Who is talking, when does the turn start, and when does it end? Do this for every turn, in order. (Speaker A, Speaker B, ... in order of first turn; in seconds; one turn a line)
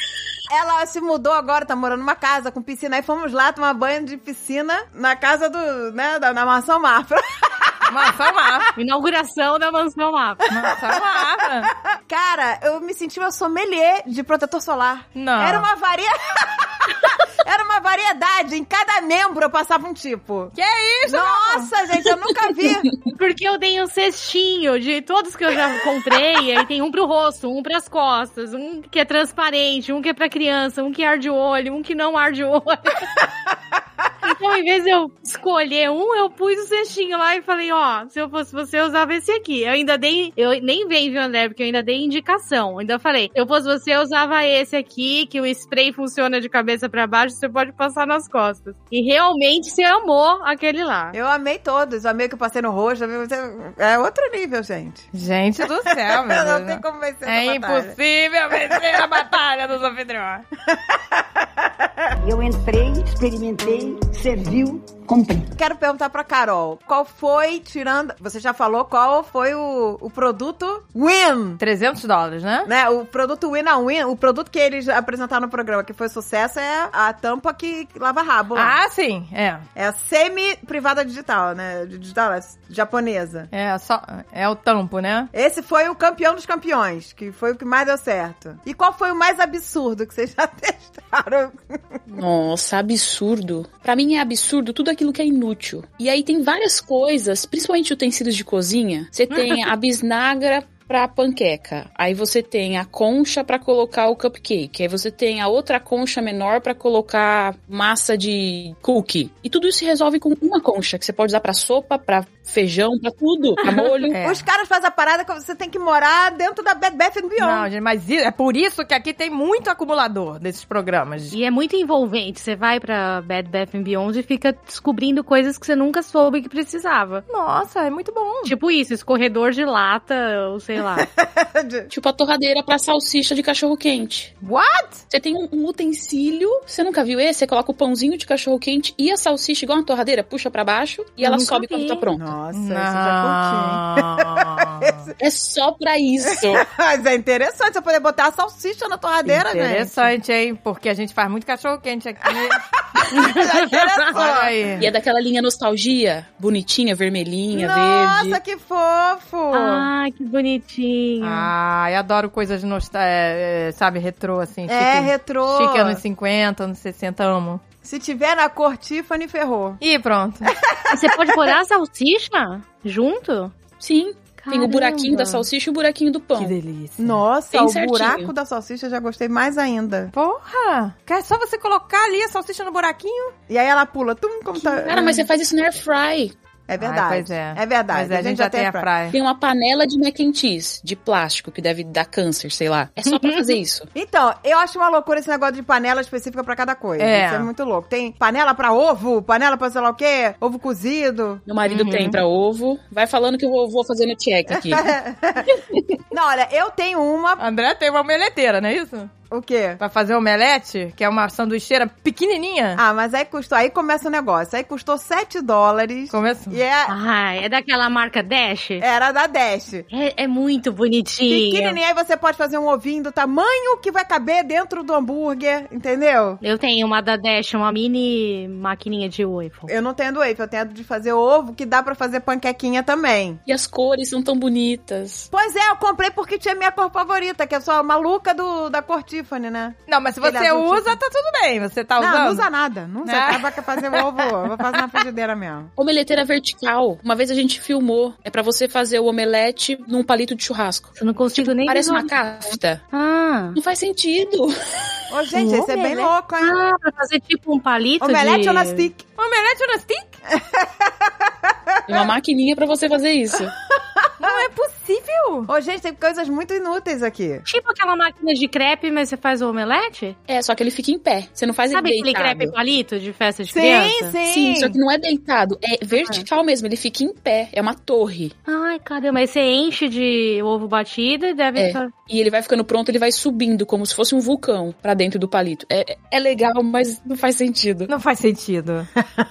Speaker A: 0.5-8.7
Speaker B: 7.9-8.7
Speaker C: 8.8-10.5
Speaker B: 10.5-11.7
Speaker A: 10.6-20.6
Speaker B: 15.2-15.7
Speaker B: 20.6-21.7
Speaker A: 21.1-22.9
Speaker C: 23.1-33.3
Speaker C: 34.2-51.2
Speaker A: 51.1-55.1
Speaker B: 55.1-60.5
Speaker A: 55.9-58.0
Speaker A: 58.5-58.9
Speaker A: 60.7-62.1
Speaker D: 62.2-65.5
Speaker A: 65.6-71.6
Speaker B: 71.6-72.7
Speaker A: 72.7-78.8
Speaker B: 78.5-79.7
Speaker A: 79.8-83.5
Speaker B: 83.5-85.3
Speaker A: 85.3-92.0
Speaker E: 92.1-114.2
Speaker B: 113.7-114.4
Speaker A: 114.2-117.7
Speaker B: 117.4-121.4
Speaker C: 121.3-127.2
Speaker B: 127.3-128.5
Speaker C: 128.5-131.1
Speaker A: 131.0-131.9
Speaker E: 131.9-134.3
Speaker B: 134.4-135.0
Speaker E: 135.1-142.3
Speaker C: 141.2-142.0
Speaker A: 142.2-145.1
Speaker B: 142.5-145.0
Speaker E: 145.2-146.7
Speaker A: 146.3-150.1
Speaker B: 149.3-152.6
Speaker A: 152.2-154.6
Speaker C: 153.1-154.1
Speaker B: 154.1-154.9
Speaker E: 154.8-158.4
Speaker A: 157.5-159.9
Speaker C: 159.5-161.5
Speaker B: 161.2-167.6
Speaker A: 164.7-166.0
Speaker A: 167.8-169.8
Speaker B: 169.8-170.5
Speaker A: 170.5-171.6
Speaker C: 170.9-173.5
Speaker E: 173.8-176.6
Speaker C: 174.4-175.5
Speaker B: 176.4-177.2
Speaker A: 177.0-180.1
Speaker E: 177.5-178.3
Speaker B: 180.1-183.3
Speaker A: 183.5-185.1
Speaker E: 184.8-186.3
Speaker C: 184.9-185.2
Speaker A: 186.7-188.9
Speaker B: 186.8-189.2
Speaker E: 189.1-193.9
Speaker A: 193.9-201.4
Speaker B: 197.0-197.5
Speaker E: 201.5-205.0
Speaker B: 201.7-202.2
Speaker A: 204.5-207.4
Speaker B: 207.4-209.1
Speaker A: 209.3-209.8
Speaker B: 209.8-212.8
Speaker A: 212.8-216.9
Speaker B: 216.1-216.6
Speaker C: 216.9-218.8
Speaker A: 218.8-219.9
Speaker C: 219.9-221.8
Speaker A: 221.3-226.4
Speaker C: 226.4-229.7
Speaker A: 229.7-233.4
Speaker E: 233.5-235.3
Speaker A: 235.3-241.0
Speaker B: 239.9-242.5
Speaker A: 242.0-245.7
Speaker B: 243.1-244.8
Speaker E: 245.8-252.8
Speaker C: 251.0-252.1
Speaker C: 252.9-253.6
Speaker E: 253.6-255.0
Speaker A: 255.1-256.6
Speaker C: 255.3-258.9
Speaker A: 258.0-259.0
Speaker B: 259.2-260.2
Speaker A: 260.3-262.1
Speaker E: 261.9-263.6
Speaker A: 263.4-264.5
Speaker B: 264.2-265.5
Speaker A: 265.5-267.5
Speaker C: 267.5-270.2
Speaker E: 270.3-272.6
Speaker C: 271.7-274.1
Speaker A: 273.5-274.8
Speaker E: 274.2-278.4
Speaker C: 276.0-276.2
Speaker C: 278.5-281.9
Speaker E: 281.6-287.9
Speaker B: 287.9-288.9